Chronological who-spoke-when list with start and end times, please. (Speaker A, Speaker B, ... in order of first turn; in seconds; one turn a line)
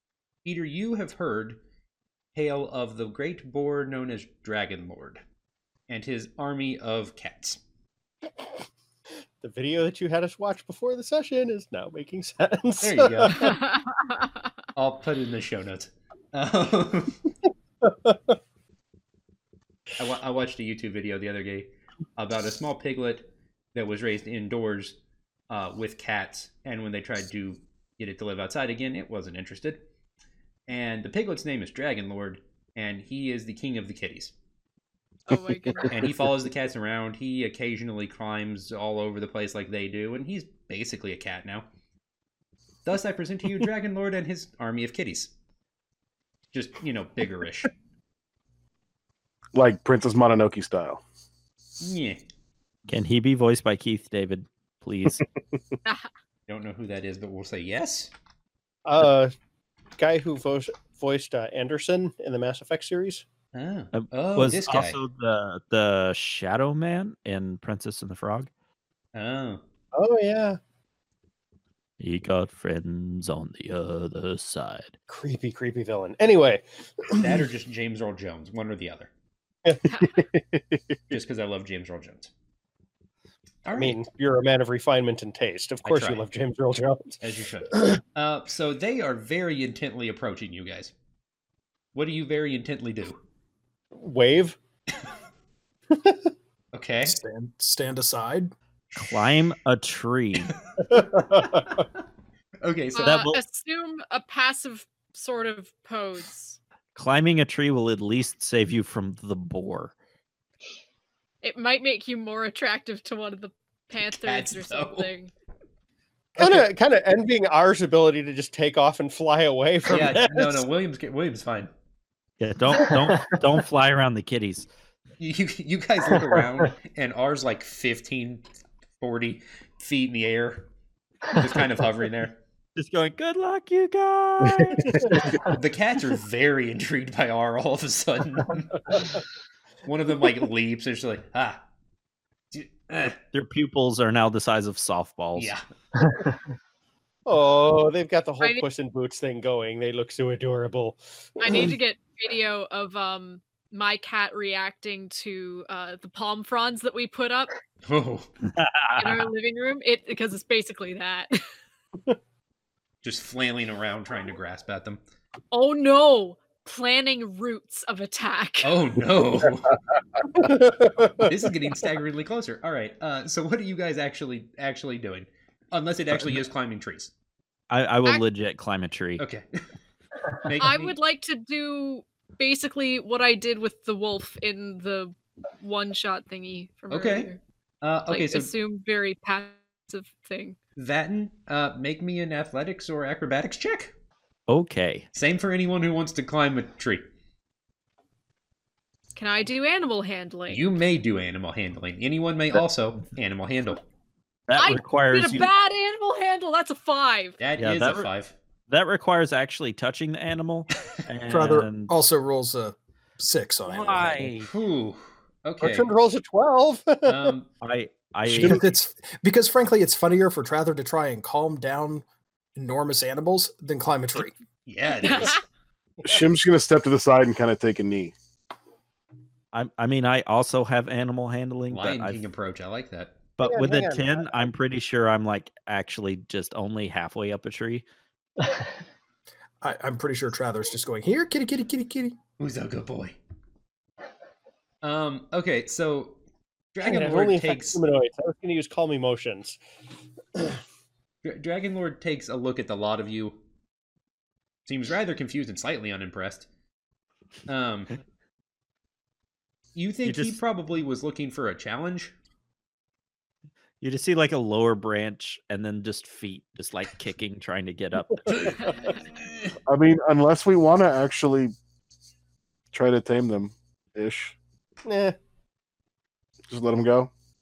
Speaker A: 0.4-1.6
Speaker A: 2.3-5.2
Speaker A: 5.9-7.6
Speaker B: 9.4-13.6
Speaker A: 12.8-13.4
Speaker C: 13.4-14.3
Speaker A: 14.8-17.2
Speaker B: 17.8-18.4
Speaker A: 20.0-25.0
Speaker A: 25.5-29.8
Speaker A: 30.7-34.3
Speaker C: 35.3-36.1
Speaker A: 35.9-41.7
Speaker A: 42.8-45.3
Speaker A: 46.5-47.7
Speaker D: 49.5-51.0
Speaker A: 51.8-52.2
Speaker E: 52.9-55.2
Speaker A: 56.5-58.1
Speaker B: 58.9-59.3
Speaker B: 60.0-63.2
Speaker A: 63.5-65.0
Speaker E: 63.9-68.5
Speaker A: 69.1-69.6
Speaker B: 69.9-70.6
Speaker E: 72.0-74.9
Speaker B: 75.1-77.3
Speaker A: 77.1-79.1
Speaker B: 79.6-80.7
Speaker C: 79.9-80.2
Speaker A: 81.1-82.3
Speaker A: 83.6-84.0
Speaker B: 83.7-87.2
Speaker A: 85.8-86.2
Speaker A: 87.2-90.9
Speaker A: 91.9-93.2
Speaker B: 93.9-94.6
Speaker B: 95.9-96.2
Speaker A: 96.7-97.2
Speaker F: 97.0-98.5
Speaker E: 99.0-100.6
Speaker B: 100.9-101.8
Speaker A: 102.6-103.2
Speaker C: 102.9-106.6
Speaker E: 103.0-103.4
Speaker E: 106.9-109.9
Speaker C: 111.4-115.3
Speaker A: 114.0-115.1
Speaker B: 116.4-120.6
Speaker A: 119.8-121.7
Speaker E: 122.4-124.7
Speaker A: 125.2-128.4
Speaker A: 129.0-130.7
Speaker A: 131.3-132.4
Speaker E: 132.8-135.4
Speaker A: 135.4-139.0
Speaker A: 139.8-141.6
Speaker A: 142.5-143.2
Speaker E: 143.3-145.5
Speaker A: 145.3-145.6
Speaker B: 147.2-151.7
Speaker C: 151.4-157.5
Speaker A: 157.8-158.3
Speaker E: 158.5-159.3
Speaker C: 159.0-161.3
Speaker A: 163.0-165.0
Speaker C: 165.5-168.7
Speaker A: 168.6-169.7
Speaker B: 170.4-171.3
Speaker A: 171.2-177.1
Speaker E: 177.7-179.2
Speaker A: 179.2-179.4
Speaker A: 180.4-180.9
Speaker C: 180.6-187.4
Speaker A: 186.9-188.5
Speaker C: 188.1-190.6
Speaker A: 190.8-193.9
Speaker E: 194.5-195.1
Speaker A: 195.1-197.0
Speaker C: 199.2-200.6
Speaker A: 200.5-203.8
Speaker E: 204.5-205.5
Speaker C: 204.6-207.4
Speaker A: 207.4-208.3
Speaker E: 207.6-208.1
Speaker E: 208.7-211.9
Speaker F: 211.3-214.3
Speaker E: 213.7-214.5
Speaker A: 214.5-215.9
Speaker B: 215.6-217.3
Speaker A: 217.0-217.5
Speaker E: 217.6-218.7
Speaker F: 218.2-222.0
Speaker F: 222.6-224.3
Speaker A: 224.7-225.4
Speaker C: 225.0-225.4
Speaker D: 226.0-228.1
Speaker E: 229.5-232.2
Speaker A: 231.7-233.2
Speaker E: 233.4-237.8
Speaker B: 233.4-234.3
Speaker F: 239.6-242.2
Speaker A: 242.4-243.2
Speaker A: 244.8-246.2
Speaker A: 246.7-247.8
Speaker B: 246.8-249.6
Speaker A: 251.2-253.4
Speaker A: 254.7-256.4
Speaker A: 257.5-257.9
Speaker A: 259.7-262.1
Speaker E: 260.0-260.4
Speaker E: 263.8-268.8
Speaker A: 269.2-269.5
Speaker D: 269.7-271.5
Speaker D: 272.7-274.4
Speaker B: 274.8-275.1
Speaker D: 276.5-277.1